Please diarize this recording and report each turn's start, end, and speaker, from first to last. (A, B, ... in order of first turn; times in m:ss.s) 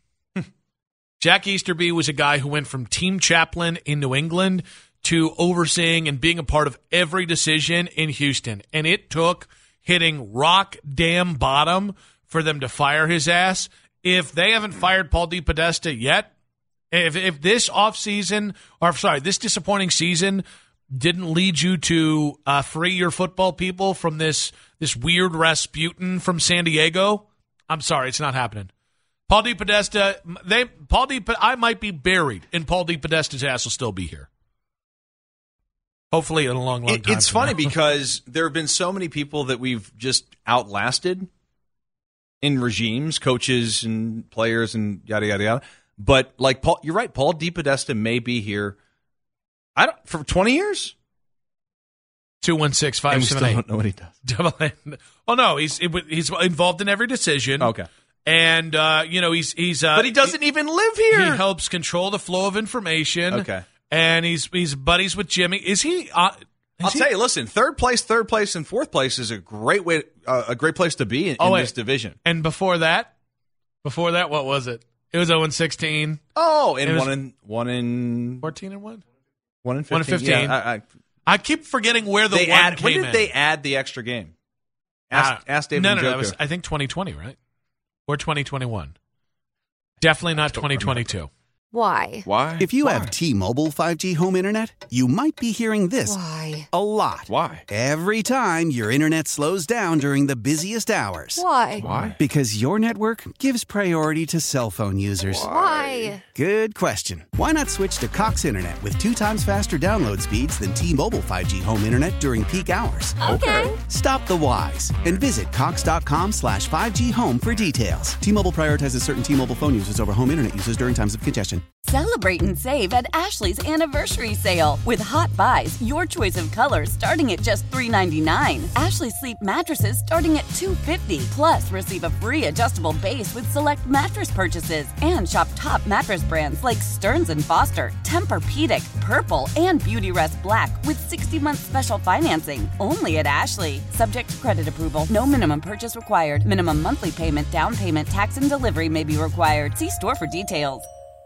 0:01.2-0:16.3 A
0:16.9-0:28.7 A
0:29.3-0:34.3 A
0:36.1-0:37.7 A
0:36.9-0:41.3 B
0:42.4-0:48.8 B
0:49.8-0:51.0 B
0:52.4-0:53.6 A
0:53.1-0:54.2 B
0:54.2-0:57.7 A
0:57.6-0:57.9 B
0:58.3-1:00.4 A
0:59.9-1:01.4 B
1:01.1-1:07.1 A
1:03.3-1:03.7 B
1:06.8-1:12.2 B
1:11.4-1:11.7 A
1:12.2-1:13.1 A
1:13.8-1:16.2 A
1:16.4-1:18.5 B
1:16.8-1:17.1 A
1:18.4-1:19.0 A
1:19.6-1:20.8 B
1:19.9-1:20.6 A
1:21.3-1:23.3 A
1:22.3-1:24.3 B
1:25.1-1:26.4 B
1:25.1-1:27.4 A
1:28.1-1:28.9 A
1:30.0-1:31.3 A
1:30.6-1:30.9 C
1:31.7-1:32.3 D
1:32.3-1:33.1 C
1:32.6-1:36.2 E
1:36.0-1:36.7 D
1:36.7-1:45.5 E
1:37.3-1:37.6 C
1:41.4-1:41.9 D
1:41.8-1:42.2 C
1:45.3-1:46.2 C
1:45.4-1:46.2 D
1:46.3-2:01.6 E
1:53.2-1:53.8 D
1:53.2-1:53.6 C
2:01.8-2:30.9 F